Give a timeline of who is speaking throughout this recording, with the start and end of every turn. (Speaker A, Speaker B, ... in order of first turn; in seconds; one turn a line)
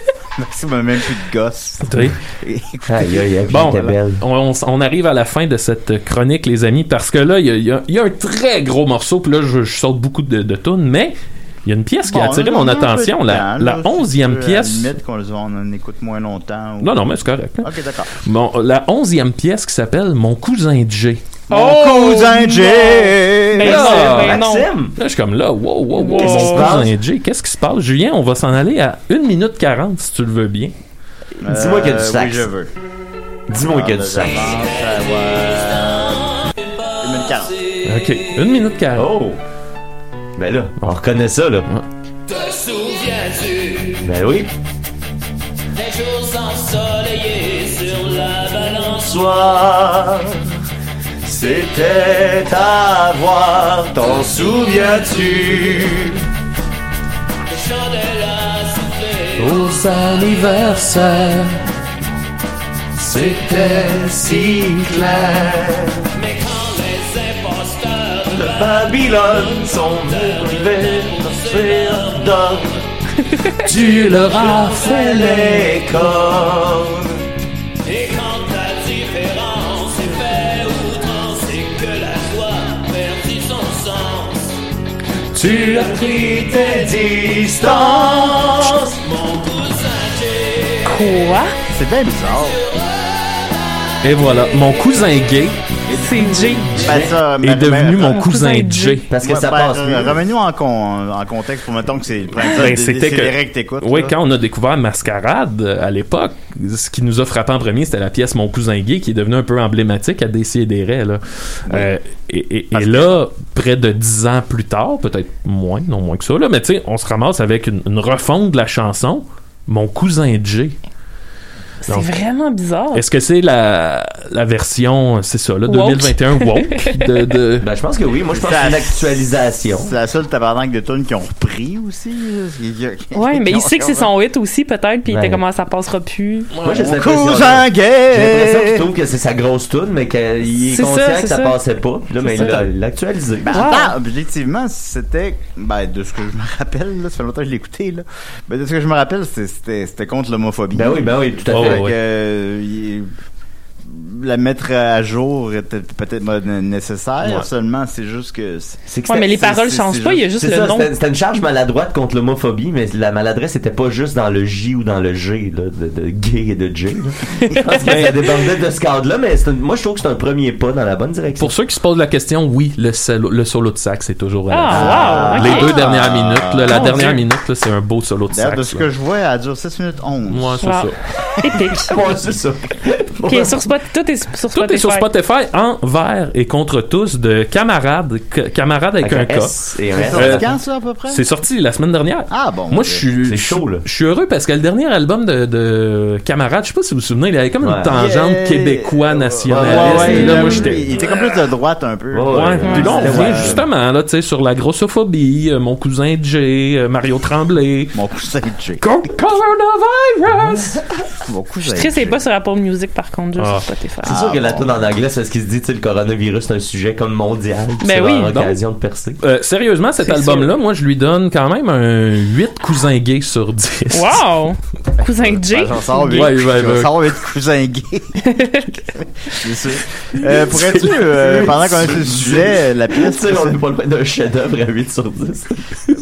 Speaker A: 0.4-3.8
Speaker B: 1.9-2.2
Speaker C: 2.9-4.2
Speaker B: 3.5-14.9
Speaker A: 12.1-17.0
Speaker B: 16.8-21.2
Speaker A: 17.6-18.1
Speaker A: 21.5-23.9
Speaker D: 21.5-24.7
Speaker B: 23.6-24.4
Speaker C: 23.6-25.0
Speaker B: 25.0-30.7
Speaker D: 25.9-26.8
Speaker C: 26.1-27.0
Speaker A: 31.4-32.7
Speaker C: 31.4-32.5
Speaker C: 33.5-34.5
Speaker A: 33.6-36.4
Speaker E: 34.6-38.5
Speaker A: 37.0-37.5
Speaker B: 37.9-39.1
Speaker C: 39.0-39.4
Speaker C: 40.4-41.7
Speaker E: 42.3-44.1
Speaker C: 44.0-44.5
Speaker E: 45.7-49.5
Speaker C: 48.9-50.6
Speaker C: 51.2-56.2
Speaker E: 54.0-55.4
Speaker E: 57.5-59.8
Speaker B: 59.4-61.6
Speaker C: 63.0-66.1
Speaker E: 64.2-64.5
Speaker E: 66.1-72.7
Speaker C: 68.3-72.8
Speaker D: 73.4-73.6
Speaker B: 73.6-75.0
Speaker E: 73.8-76.2
Speaker C: 74.8-77.2
Speaker E: 77.8-84.6
Speaker E: 85.4-91.2
Speaker C: 85.4-89.0
Speaker D: 90.8-91.5
Speaker A: 91.7-92.6
Speaker E: 92.3-95.1
Speaker B: 94.0-95.6
Speaker A: 95.9-98.2
Speaker D: 96.0-97.0
Speaker B: 96.9-99.1
Speaker D: 98.0-99.0
Speaker C: 99.1-100.2
Speaker A: 99.2-104.2
Speaker B: 102.4-120.8
Speaker A: 112.7-113.2
Speaker D: 121.8-123.0
Speaker B: 122.9-127.7
Speaker D: 125.7-127.3
Speaker C: 127.6-129.9
Speaker A: 128.3-134.1
Speaker D: 133.1-136.5
Speaker C: 135.1-135.4
Speaker B: 136.6-136.9
Speaker C: 136.6-143.7
Speaker A: 136.7-138.9
Speaker D: 140.6-141.6
Speaker D: 142.2-142.6
Speaker A: 143.4-153.1
Speaker D: 143.5-143.9
Speaker C: 150.7-151.9
Speaker B: 151.5-152.0
Speaker A: 153.8-160.3
Speaker C: 158.9-159.6
Speaker D: 159.1-160.9
Speaker C: 160.3-171.5
Speaker D: 167.5-168.0
Speaker B: 171.4-178.9
Speaker D: 174.5-175.7
Speaker A: 174.7-177.2
Speaker D: 176.7-177.2
Speaker A: 178.3-180.8
Speaker B: 180.3-181.0
Speaker D: 180.6-182.0
Speaker C: 181.8-183.7
Speaker D: 183.3-185.1
Speaker B: 184.5-189.6
Speaker C: 189.0-190.5
Speaker A: 189.9-191.2
Speaker B: 190.1-190.5
Speaker B: 191.1-201.0
Speaker A: 192.3-193.1
Speaker C: 193.3-193.8
Speaker C: 197.6-197.9
Speaker A: 197.9-203.6
Speaker C: 199.5-200.7
Speaker D: 200.1-200.7
Speaker C: 202.1-203.7
Speaker B: 202.3-208.0
Speaker D: 202.6-203.1
Speaker A: 207.9-208.8
Speaker B: 208.8-210.8
Speaker A: 211.2-212.2
Speaker D: 211.7-214.2
Speaker B: 213.4-213.7
Speaker C: 214.1-219.2
Speaker A: 214.1-214.9
Speaker D: 217.8-218.4
Speaker B: 218.3-218.6
Speaker B: 219.2-224.2
Speaker D: 220.0-220.5
Speaker D: 223.9-226.3
Speaker A: 225.0-233.6
Speaker B: 226.1-227.1
Speaker D: 228.2-228.7
Speaker B: 230.3-231.7
Speaker C: 231.9-232.4
Speaker C: 233.0-235.6